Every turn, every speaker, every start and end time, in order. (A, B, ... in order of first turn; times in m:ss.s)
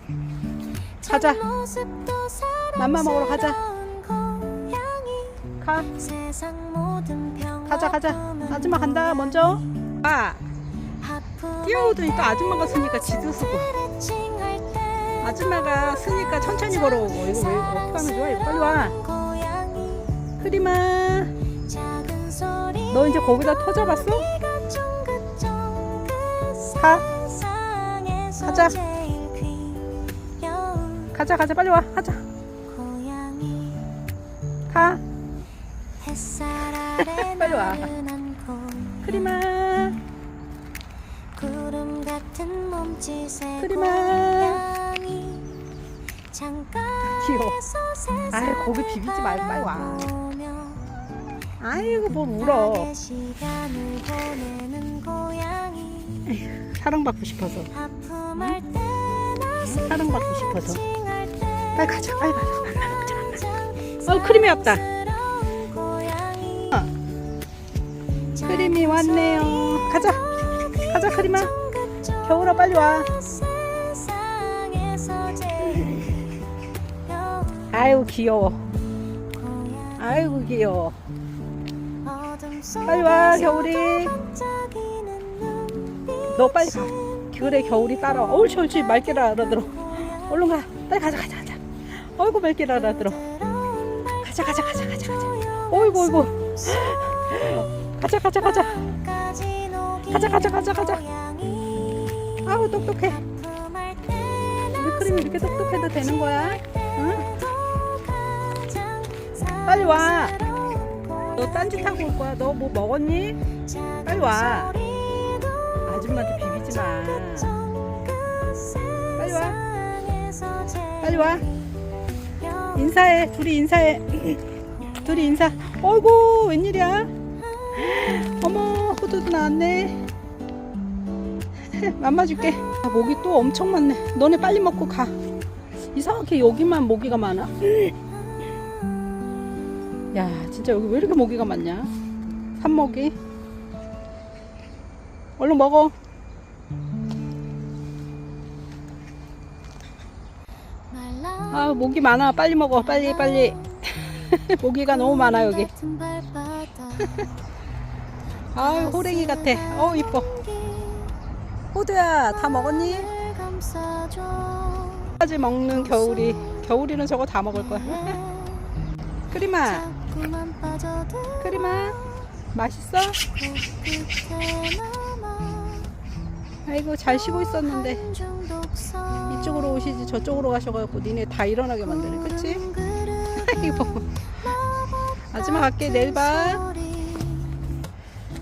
0:01.0-0:09.6 A
0:01.1-0:01.4 B
0:02.8-0:03.6 B
0:05.6-0:05.9 B
0:07.7-0:10.4 B
0:11.0-0:20.3 A
0:11.6-0:13.7 B
0:15.2-0:19.0 B
0:20.4-0:21.3 B
0:21.6-0:31.2 A
0:22.9-0:24.3 B
0:26.8-0:27.0 B
0:28.4-0:28.8 B
0:31.1-0:32.2 B
0:32.6-0:33.9 A
0:34.7-0:35.0 B
0:36.0-0:39.4 A
0:37.0-0:37.9 B
0:39.0-0:40.0 B
0:41.3-0:45.6 A
0:43.6-0:44.6 B
0:46.3-0:50.9 A
0:47.2-0:47.6 B
0:48.3-0:50.1 B
0:51.6-0:52.9 B
0:52.4-0:56.2 A
0:56.3-0:57.7 B
0:57.7-1:06.9 A
0:59.6-1:00.8 B
1:01.8-1:03.4 B
1:04.1-1:04.8 B
1:08.4-1:16.2 A
1:08.4-1:10.2 B
1:10.8-1:11.5 B
1:12.2-1:13.1 B
1:17.0-1:17.7 A
1:17.7-1:18.6 B
1:19.3-1:20.2 A
1:20.0-1:21.0 B
1:22.0-1:27.6 A
1:22.9-1:24.1 B
1:26.3-1:33.2 B
1:28.5-1:30.5 A
1:32.8-1:37.3 A
1:34.2-1:38.8 B
1:38.4-1:52.3 A
1:40.1-1:41.0 B
1:42.4-1:43.2 B
1:44.8-1:47.3 B
1:49.6-1:50.4 B
1:51.3-1:53.4 B
1:53.6-2:01.5 A
1:54.0-1:54.7 B
1:55.8-1:57.5 B
1:59.2-1:59.6 B
2:01.0-2:01.4 B
2:02.4-2:03.0 A
2:02.7-2:04.4 B
2:05.0-2:07.1 B
2:07.7-2:10.0 B
2:11.7-2:15.1 B
2:15.9-2:17.9 B
2:18.3-2:18.9 A
2:20.1-2:21.9 B
2:22.6-2:23.1 B
2:25.4-2:25.9 B
2:30.9-2:32.2 A
2:31.5-2:35.7 B
2:32.7-2:33.9 A
2:34.8-2:37.3 A
2:38.5-2:40.3 B
2:38.5-2:41.1 A
2:41.7-2:43.1 B
2:42.3-2:45.2 A
2:45.2-2:48.2 B
2:45.7-2:46.7 A
2:47.5-2:48.8 A
2:49.3-2:49.8 B
2:49.6-2:52.3 A
2:51.4-2:52.0 B
2:52.5-2:53.2 B
2:53.3-2:55.9 A
2:56.6-2:58.0 B
2:57.0-2:59.7 A
2:59.3-3:02.6 B
3:01.8-3:07.6 A
3:03.4-3:04.0 B
3:05.3-3:06.6 B